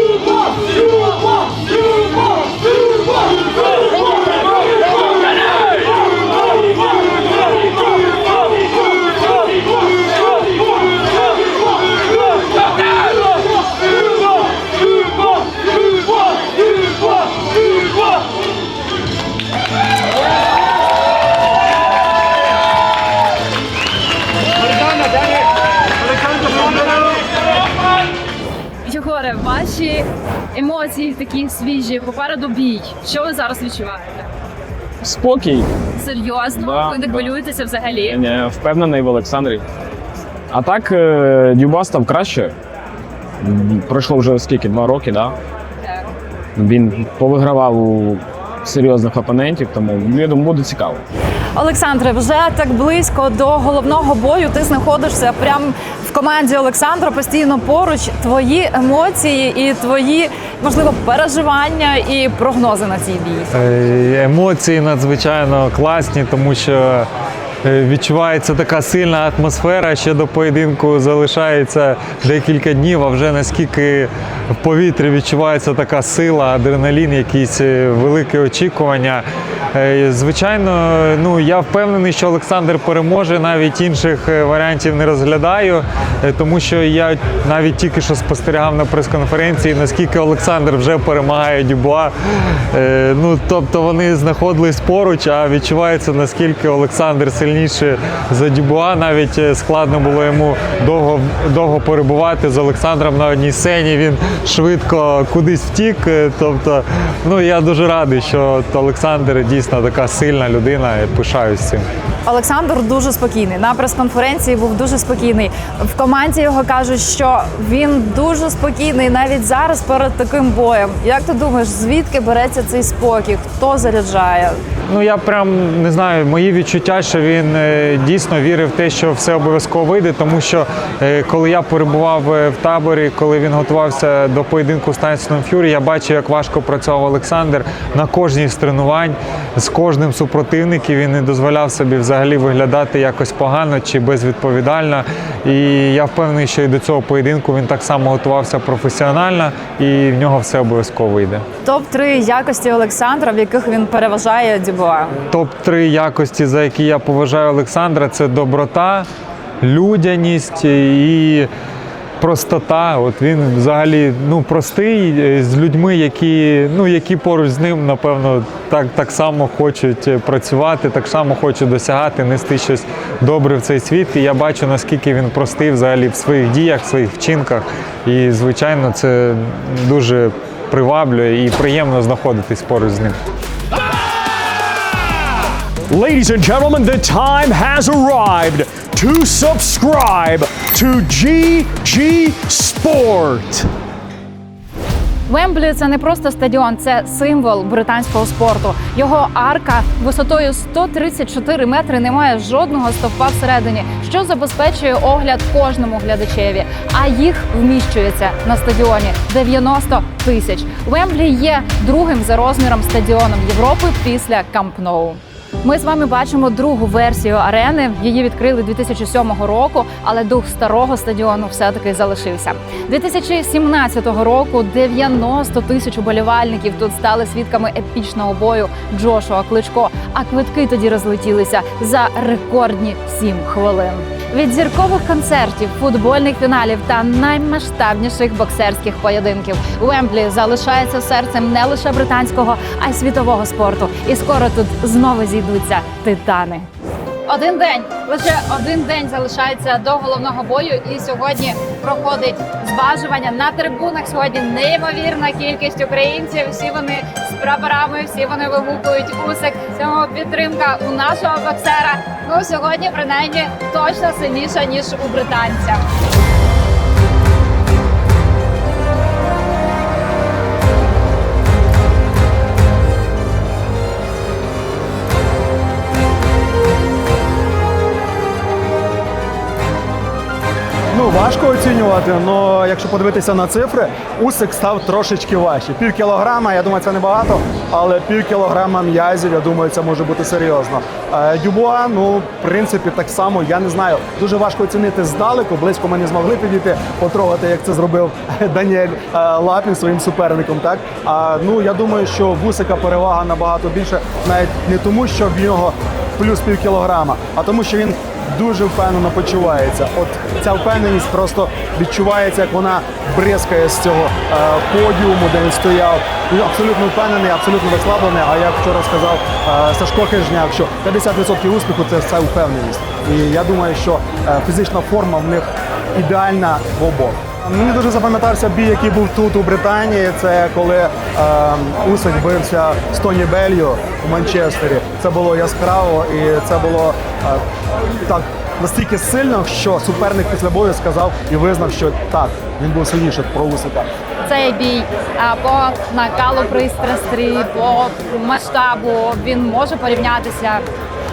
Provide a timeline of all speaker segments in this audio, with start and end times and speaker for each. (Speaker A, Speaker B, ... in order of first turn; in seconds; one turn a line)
Speaker A: 28.9-34.3
Speaker B: 35.0-35.7
Speaker A: 36.0-38.2
Speaker B: 36.5-37.4
Speaker B: 38.0-39.6
Speaker B: 40.5-42.5
Speaker B: 43.4-45.4
Speaker B: 46.6-51.0
Speaker A: 51.6-63.5
Speaker C: 63.5-67.1
Speaker C: 67.6-111.9
Speaker A: 112.2-124.6
Speaker C: 124.9-151.4
Speaker A: 151.6-155.2
Speaker C: 155.3-159.1
Speaker C: 159.6-161.5
Speaker C: 162.2-183.2
Speaker D: 185.9-193.7
Speaker A: 195.3-246.7
Speaker A: 247.3-265.9
Speaker E: 280.9-337.4
Speaker E: 338.1-343.9
Speaker A: 344.3-350.6